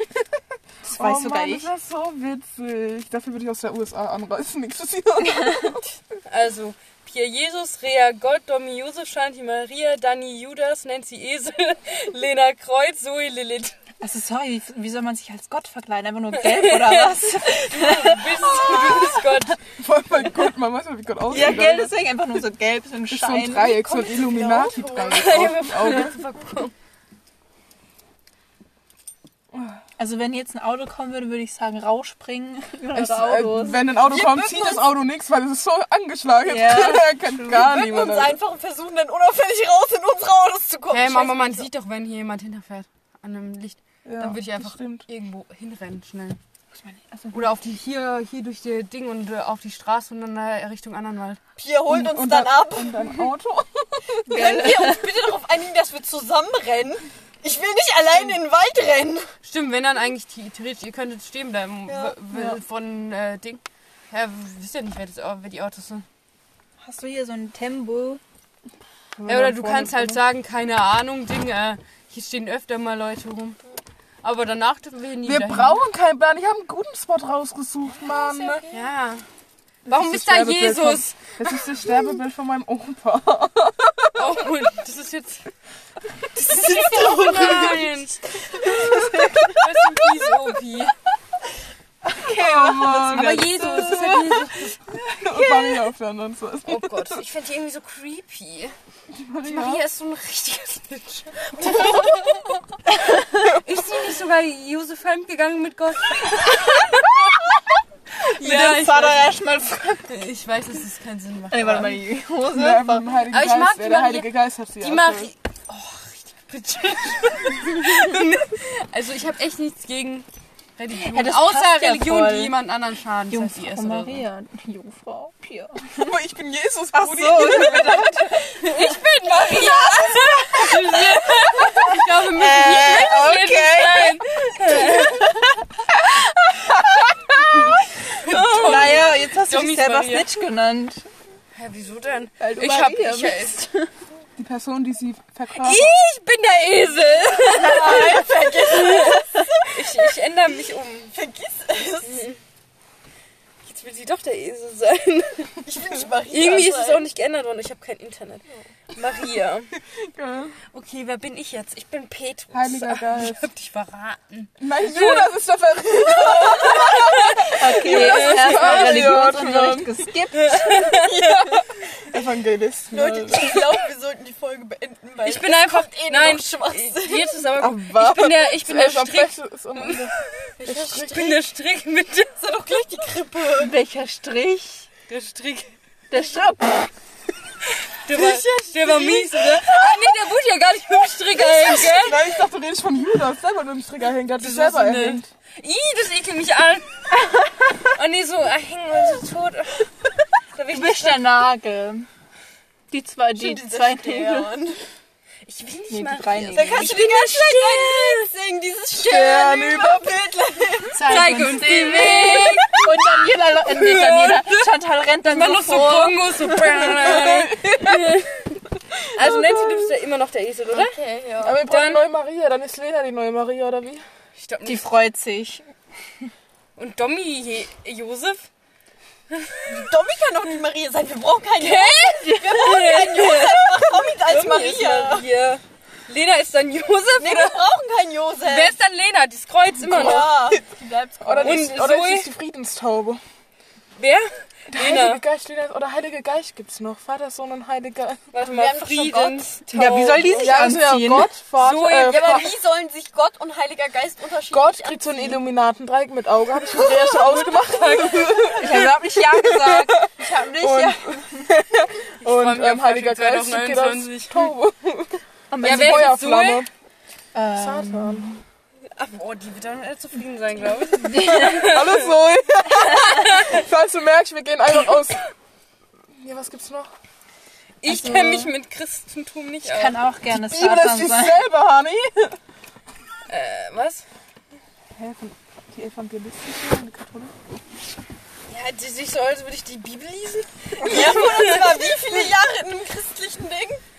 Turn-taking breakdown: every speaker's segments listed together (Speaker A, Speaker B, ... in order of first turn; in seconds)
Speaker A: 0.8-6.0, 19.7-22.0, 23.1-26.2, 29.5-29.8, 32.9-38.4, 44.0-45.1, 51.9-54.4, 69.2-70.2, 75.2-78.7, 79.8-84.4, 92.2-94.3, 95.1-97.2, 99.1-99.8, 112.5-115.3, 125.9-128.4, 136.7-137.8, 138.3-138.8, 144.4-145.9, 159.8-160.6, 162.5-163.5, 164.6-169.9, 171.2-173.7, 177.6-181.1, 191.8-195.3, 209.0-210.2, 216.8-218.2, 218.9-219.9, 221.4-224.1, 240.1-240.6, 241.2-243.2, 244.7-248.3, 250.4-252.5, 254.5-266.7, 267.5-268.4, 271.3-275.2, 276.1-276.9, 280.3-282.4, 284.9-287.3
Speaker B: 0.9-1.7, 5.5-5.7, 14.0-19.4, 21.3-23.8, 30.0-33.9, 36.4-37.6, 46.7-47.5, 54.3-55.3, 66.8-68.2, 88.7-89.5, 92.1-94.5, 95.3-95.6, 108.3-110.3, 111.5-113.2, 121.0-122.5, 123.3-126.1, 126.9-141.1, 142.4-143.9, 147.9-148.2, 167.6-171.0, 183.6-184.9, 186.1-186.9, 200.7-202.1, 202.9-204.6, 205.9-207.0, 210.9-216.9, 224.7-225.7, 232.2-232.9, 249.7-251.3, 258.6-261.5, 265.5-266.2, 267.3-268.4, 270.8-271.7, 277.8-278.5, 279.6-281.4
Speaker C: 6.3-13.8, 16.4-19.6, 25.1-26.7, 34.1-34.8, 40.9-46.4, 47.3-51.4, 59.4-66.1, 69.3-73.6, 74.2-75.8, 78.7-79.2, 79.9-81.2, 84.2-85.5, 86.3-88.2, 89.5-90.9, 93.0-94.8, 96.7-98.8, 99.4-102.4, 103.5-107.4, 108.2-109.3, 110.1-112.0, 113.3-124.2, 128.6-135.3, 137.6-140.3, 141.5-143.6, 145.6-151.1, 152.0-152.4, 153.6-155.6, 156.3-159.8, 160.7-165.3, 166.8-169.0, 170.3-171.5, 175.2-182.4, 185.1-185.8, 187.8-192.2, 194.4-197.1, 197.8-199.9, 200.5-201.3, 205.4-208.3, 211.0-212.9, 213.7-221.0, 221.6-222.0, 224.4-224.9, 226.8-228.5, 229.3-229.8, 231.6-237.7, 238.4-240.6, 241.4-242.3, 244.0-245.2, 248.3-250.5, 251.6-252.5, 257.4-258.5, 262.2-264.5, 265.6-266.7, 268.9-272.2, 272.8-273.6, 277.8-280.0, 283.3-284.1, 288.5-292.3
Speaker D: 23.8-25.6, 37.5-41.7, 51.6-53.1, 54.3-59.3, 61.9-62.2, 78.0-78.9, 86.4-89.5, 101.6-102.4, 147.4-150.1, 151.1-152.3, 155.6-157.1, 165.9-168.1, 168.6-169.3, 171.2-171.6, 172.9-177.5, 180.6-181.4, 182.4-183.8, 188.1-190.1, 191.4-192.0, 203.4-204.8, 206.5-211.2, 211.8-213.1, 220.7-221.6, 229.7-235.3, 237.2-238.8, 239.8-241.7, 248.4-250.4, 252.0-255.4, 256.7-258.1, 290.8-293.8